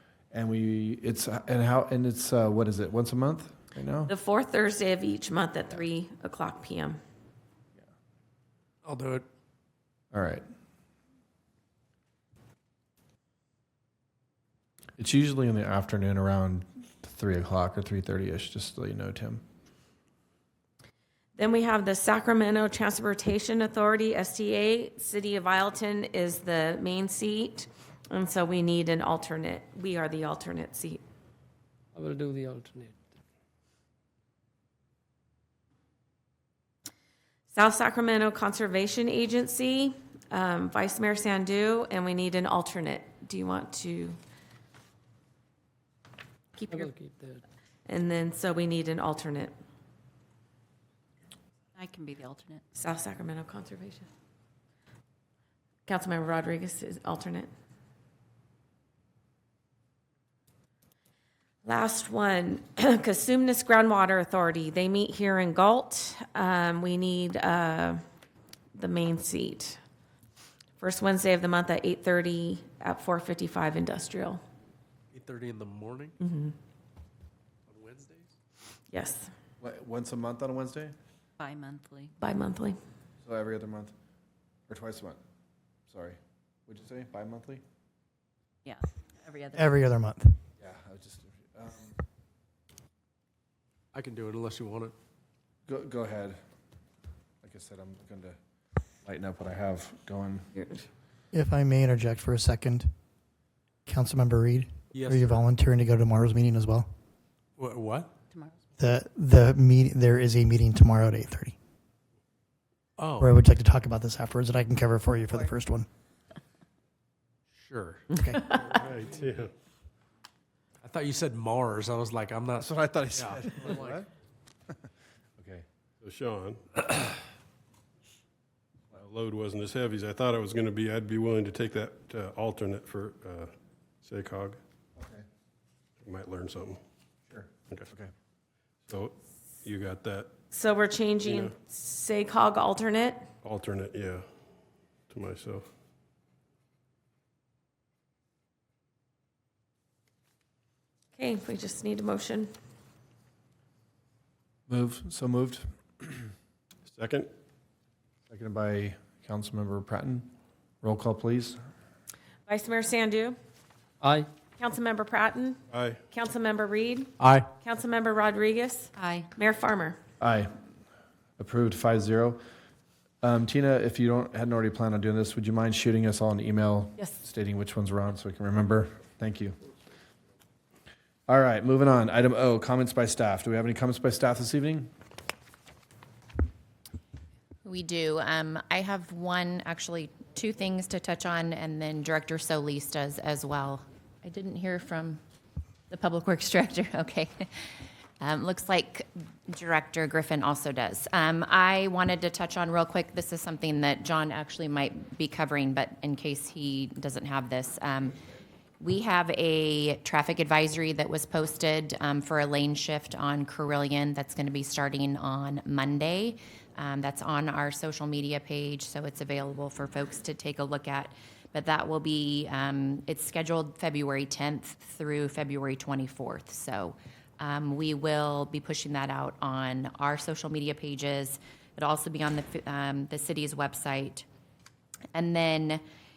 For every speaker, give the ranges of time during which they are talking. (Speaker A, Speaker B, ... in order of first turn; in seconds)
Speaker A: 0.3-4.1, 10.1-10.4, 15.0-19.4, 79.6-80.9, 83.2-83.9, 84.7-85.2, 85.9-87.6, 90.6-92.0, 95.7-96.4, 97.4-98.4, 99.0-100.5, 122.6-124.1, 125.4-125.6, 135.0-135.2, 137.3-138.1, 154.7-156.2, 158.3-160.3, 160.8-161.6, 170.2-170.5, 171.4-172.4, 173.2-179.6, 181.3-184.9
Speaker B: 4.1-7.0, 21.4-31.0, 37.5-44.2, 46.5-46.9, 47.9-49.5, 52.8-54.1, 55.9-57.5, 61.6-68.0, 68.7-69.8, 70.8-74.4, 76.2-76.5, 78.9-79.3, 82.2-82.8, 100.5-100.8, 140.5-143.2, 151.2-152.5, 162.5-163.4, 164.6-165.6, 166.1-170.0
Speaker C: 8.8-9.2, 75.1-76.1, 77.7-78.3, 93.9-94.9, 104.9-105.5, 107.6-108.1, 113.0-113.4, 117.5-118.0, 120.8-124.0, 167.2-167.5
Speaker D: 31.9-33.0, 46.7-47.4, 164.0-164.3
Speaker E: 51.7-52.6, 81.4-82.1, 88.6-89.8, 108.3-108.5
Speaker F: 89.5-90.4, 101.3-102.9, 103.8-106.9, 108.8-111.5, 113.2-115.9, 118.2-118.5
Speaker G: 118.7-119.5, 126.0-127.1, 128.9-133.5, 134.0-134.6, 136.0-136.8, 138.9-140.3, 141.2-141.5, 143.4-144.2, 145.1-145.6, 156.9-157.3, 165.7-166.0
Speaker H: 187.6-195.2, 195.9-197.5, 198.2-208.2, 208.8-234.2, 235.1-235.8